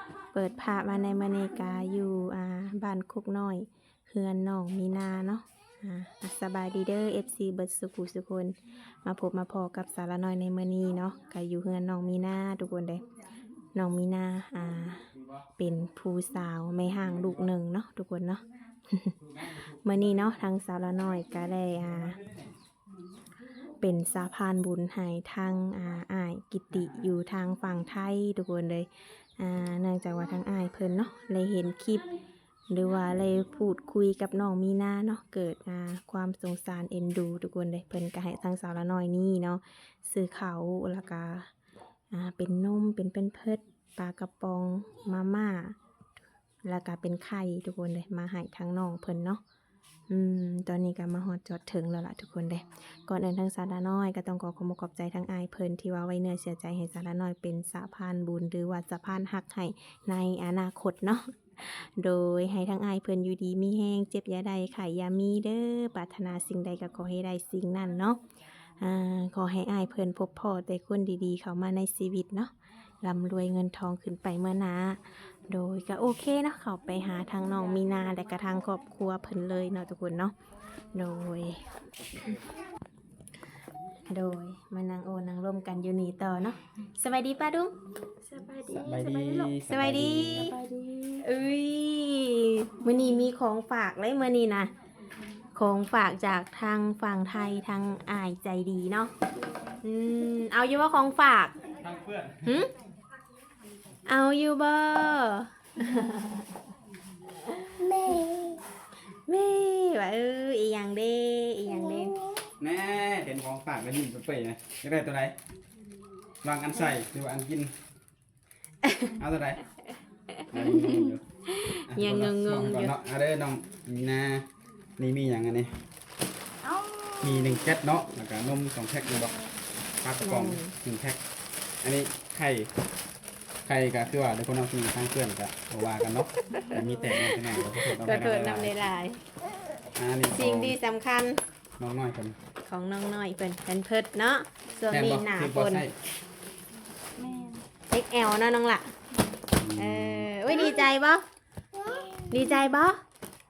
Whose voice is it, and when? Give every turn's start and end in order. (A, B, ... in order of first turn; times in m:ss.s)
0:00.3-0:13.0 A
0:13.7-0:19.2 A
0:15.2-0:15.4 B
0:19.2-0:19.8 B
0:19.7-0:22.2 A
0:21.8-0:22.5 B
0:23.8-0:32.0 A
0:32.7-0:41.5 A
0:42.1-0:45.8 A
0:46.6-0:49.4 A
0:50.1-1:08.2 A
1:08.8-1:20.3 A
1:17.3-1:17.9 C
1:20.9-1:21.7 A
1:24.1-1:27.7 A
1:28.2-1:29.6 C
1:28.7-1:30.5 B
1:29.6-1:30.5 A
1:30.3-1:31.2 C
1:31.2-1:34.7 A
1:32.9-1:33.2 C
1:35.5-1:39.1 A
1:39.3-1:39.8 C
1:39.8-1:41.6 A
1:41.8-1:42.5 B
1:42.4-1:42.7 A
1:44.0-1:46.5 A
1:47.4-1:48.6 A
1:47.9-1:48.2 C
1:49.3-1:52.2 A
1:52.6-1:55.4 B
1:56.4-1:57.8 B
1:58.8-1:59.1 A
1:59.2-1:59.6 B
2:00.3-2:02.9 A
2:00.5-2:05.8 B
2:06.6-2:07.8 C
2:07.2-2:09.4 B
2:09.0-2:09.6 C
2:10.0-2:11.2 B
2:10.2-2:10.7 A
2:11.8-2:12.7 B
2:13.6-2:18.8 B
2:16.5-2:19.2 A
2:16.6-2:17.1 C
2:20.0-2:20.8 B
2:20.3-2:21.4 A
2:21.8-2:22.4 B
2:22.6-2:25.8 A
2:24.7-2:25.1 C
2:24.9-2:26.0 B
2:27.2-2:27.7 C
2:27.9-2:28.9 A
2:29.1-2:29.4 C
2:29.5-2:30.3 B
2:29.8-2:31.2 A
2:30.6-2:30.8 C
2:32.3-2:33.0 A